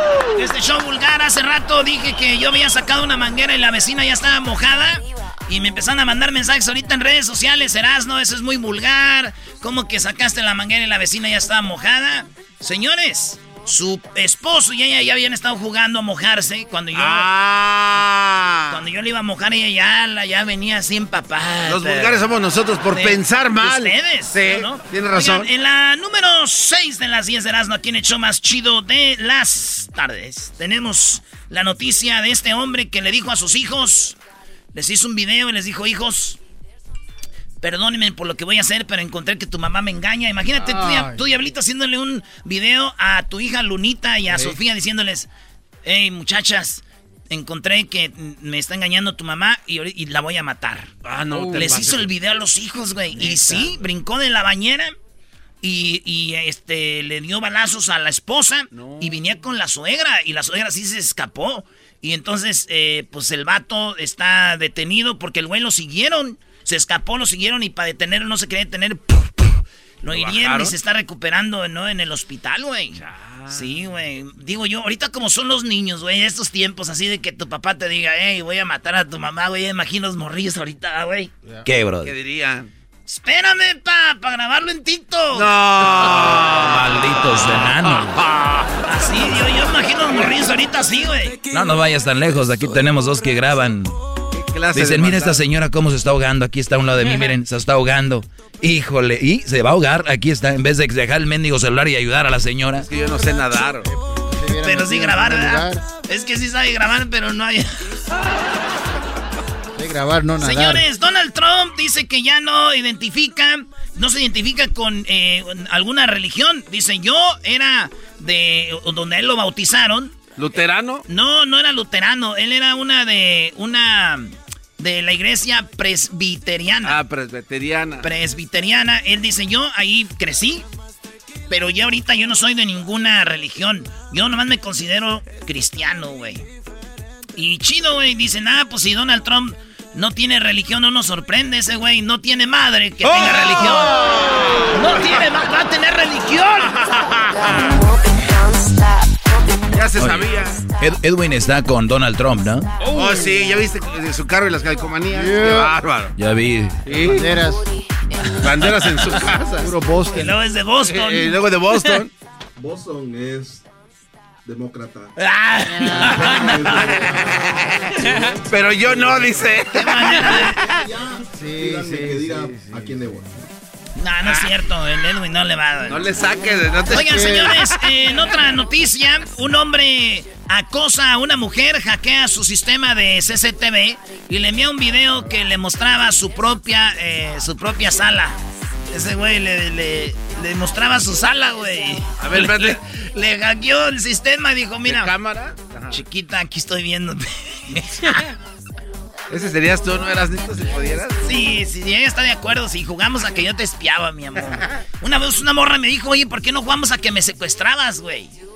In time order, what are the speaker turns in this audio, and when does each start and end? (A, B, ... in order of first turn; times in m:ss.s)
0:00.4-0:17.3 A
0:16.9-0:18.8 B
0:18.7-0:22.2 A
0:21.6-0:25.5 B
0:22.9-0:34.2 A
0:34.7-0:36.4 A
0:37.6-0:45.3 A
0:40.6-0:41.2 C
0:44.3-0:44.6 B
0:45.8-0:50.9 A
0:51.0-0:52.1 B
0:51.3-0:51.9 C
0:51.5-0:54.9 A
0:53.1-0:53.8 B
0:55.6-1:21.3 A
0:58.7-0:59.1 B
1:10.1-1:10.7 B
1:13.0-1:13.7 B
1:21.6-1:22.1 D
1:22.0-1:22.7 B
1:23.1-1:25.5 A
1:25.3-1:27.1 B
1:26.5-1:28.2 D
1:27.8-1:28.7 B
1:28.8-1:31.4 A
1:31.5-1:33.9 D
1:34.3-1:35.4 B
1:34.7-1:42.9 D
1:42.8-1:43.9 B
1:43.9-1:45.8 C
1:44.6-1:47.9 A
1:49.8-1:50.8 C
1:50.4-2:00.2 A
2:00.4-2:01.0 B
2:01.1-2:07.0 A
2:06.8-2:08.0 B
2:08.0-2:10.6 A
2:11.5-2:16.4 A
2:17.4-2:24.0 A
2:23.0-2:25.0 B
2:24.7-2:26.7 A
2:26.8-2:27.8 B
2:29.7-2:30.6 B
2:30.0-2:32.7 D
2:32.9-2:36.1 B
2:32.9-2:33.4 C
2:35.1-2:35.8 C
2:36.2-2:36.8 D
2:36.8-2:37.3 B
2:36.9-2:37.7 C
2:38.4-2:39.7 B
2:39.5-2:40.4 C
2:40.1-2:41.4 A
2:40.9-2:42.1 B
2:42.6-2:43.6 E
2:44.4-2:45.1 E
2:45.2-2:46.7 A
2:45.7-2:47.2 C
2:46.1-2:47.6 E
2:47.3-2:47.7 B
2:48.2-2:49.4 C
2:48.5-2:50.2 B
2:49.7-2:50.6 A
2:50.6-2:53.4 E
2:51.3-2:52.9 C
2:54.0-2:56.0 A
2:55.9-2:57.7 B
2:56.9-3:08.4 A
3:08.9-3:15.1 A
3:12.2-3:12.8 B
3:14.8-3:15.9 B
3:15.9-3:18.2 A
3:19.3-3:21.2 B
3:21.2-3:28.3 A